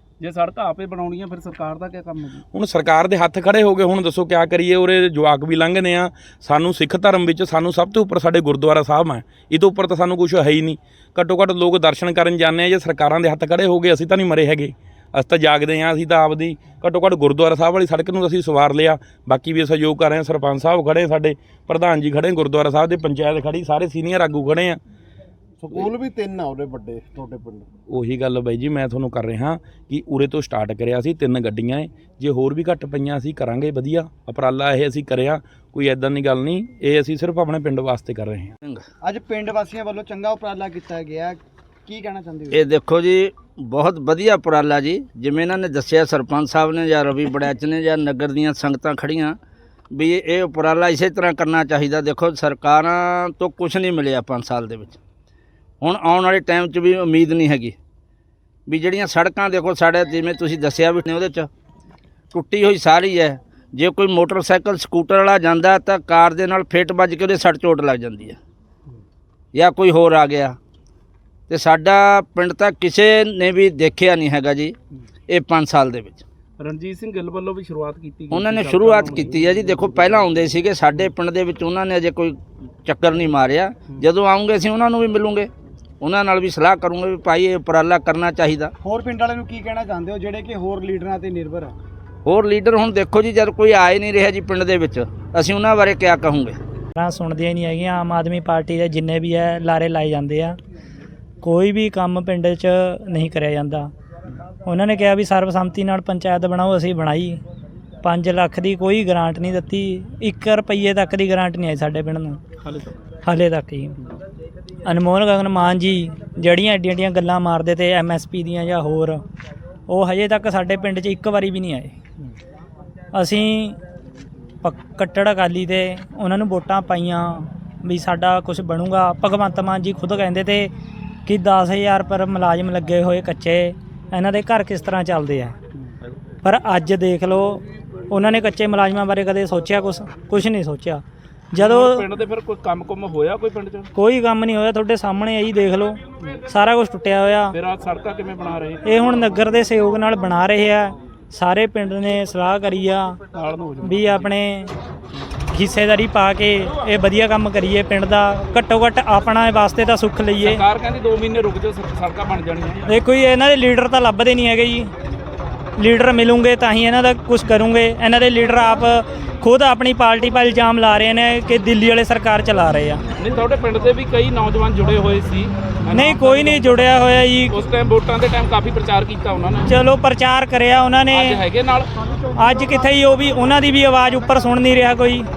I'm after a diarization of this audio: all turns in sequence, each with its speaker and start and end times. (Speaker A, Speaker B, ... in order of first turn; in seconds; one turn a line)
Speaker A: 0.2-2.4
Speaker B: 2.5-24.8
Speaker C: 25.6-27.7
Speaker B: 27.9-38.5
Speaker D: 39.0-42.7
Speaker E: 42.5-49.4
Speaker E: 49.9-55.0
Speaker E: 55.8-57.8
Speaker E: 58.7-61.5
Speaker E: 62.3-68.4
Speaker E: 69.5-70.6
Speaker E: 71.5-74.7
Speaker E: 75.3-76.2
Speaker A: 76.6-81.1
Speaker E: 78.3-85.5
Speaker E: 86.0-88.7
Speaker D: 88.8-91.8
Speaker E: 92.2-96.6
Speaker F: 97.0-100.6
Speaker F: 101.4-103.9
Speaker F: 104.6-107.4
Speaker F: 108.0-112.4
Speaker A: 112.6-113.0
Speaker F: 113.2-114.0
Speaker F: 114.8-119.2
Speaker F: 119.9-121.9
Speaker F: 123.1-123.8
Speaker F: 124.6-130.7
Speaker F: 131.2-135.6
Speaker F: 136.4-142.1
Speaker A: 141.6-143.9
Speaker F: 143.9-147.6
Speaker A: 147.5-148.8
Speaker F: 148.8-153.2
Speaker A: 153.3-154.3
Speaker F: 153.8-154.7
Speaker F: 155.5-160.6
Speaker A: 160.4-162.9
Speaker F: 162.8-164.9
Speaker F: 165.8-173.0
Speaker A: 173.2-176.8
Speaker F: 175.9-177.6
Speaker A: 177.5-179.7
Speaker F: 179.7-181.4
Speaker A: 181.1-181.9
Speaker F: 182.3-185.3